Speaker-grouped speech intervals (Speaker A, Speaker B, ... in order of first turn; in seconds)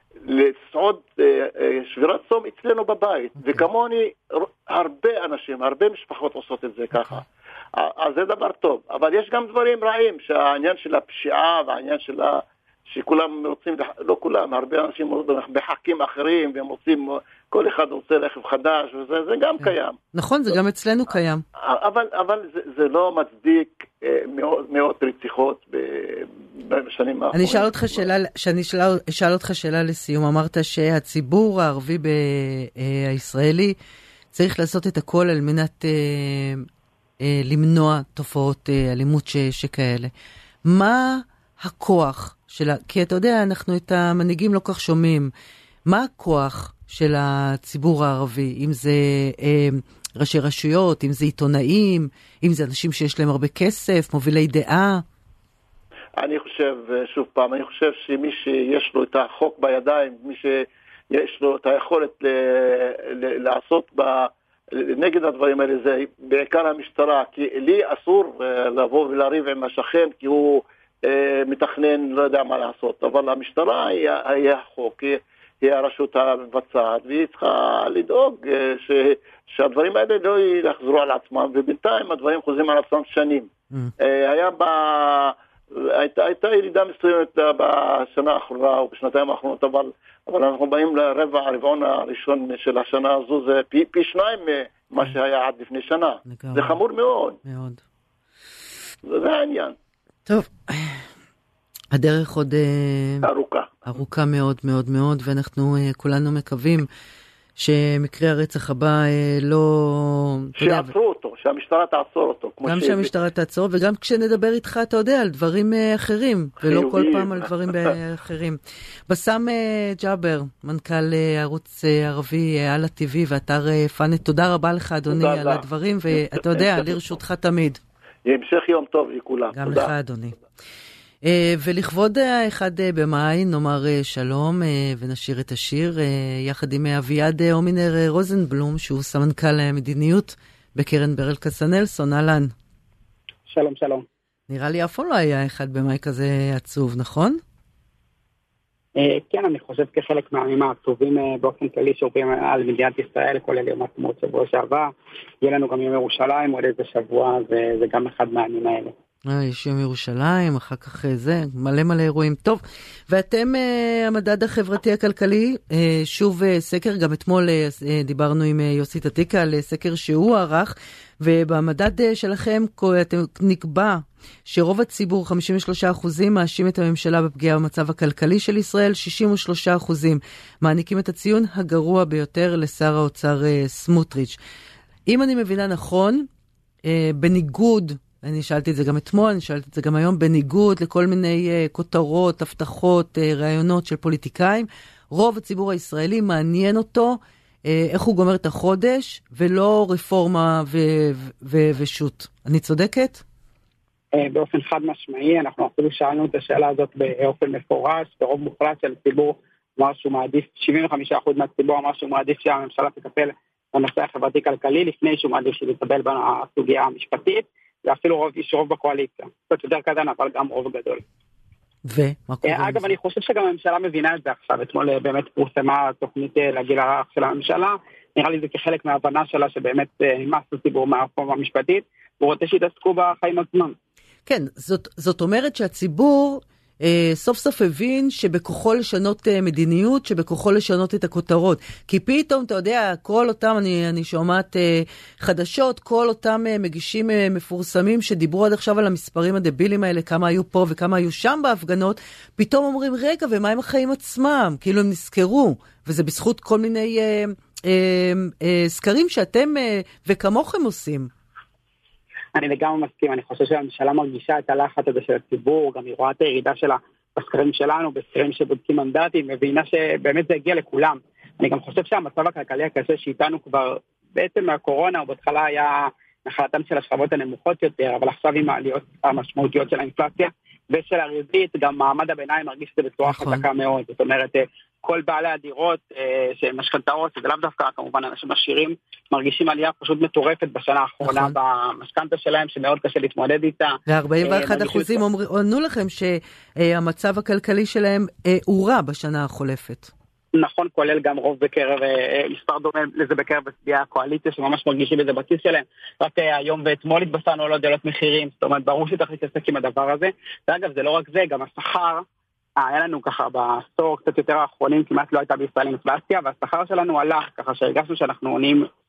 Speaker A: 0.3-7.2, 7.8-20.0, 21.6-28.1, 56.2-83.5, 84.0-97.4, 99.1-99.8, 103.2-103.7, 110.6-113.1, 116.6-117.9, 125.1-125.7, 126.2-127.0, 128.3-129.9
Speaker B: 7.0-7.2, 19.6-21.4, 27.3-33.8, 34.3-36.7, 37.2-40.1, 40.6-45.3, 45.9-55.0, 96.3-96.8, 97.5-97.8, 100.3-101.0, 101.9-103.3, 103.9-106.9, 107.6-110.9, 112.7-127.8, 129.5-130.4, 131.2-142.5, 144.5-147.4, 159.3-184.4, 185.1-186.3, 186.8-203.2, 221.8-222.9, 234.3-261.1, 283.1-283.4, 291.0-291.4, 293.9-299.9
Speaker C: 143.5-144.1, 149.0-154.9, 155.4-158.9, 204.1-221.0, 222.4-233.8, 262.4-295.0, 300.4-312.1, 312.6-318.7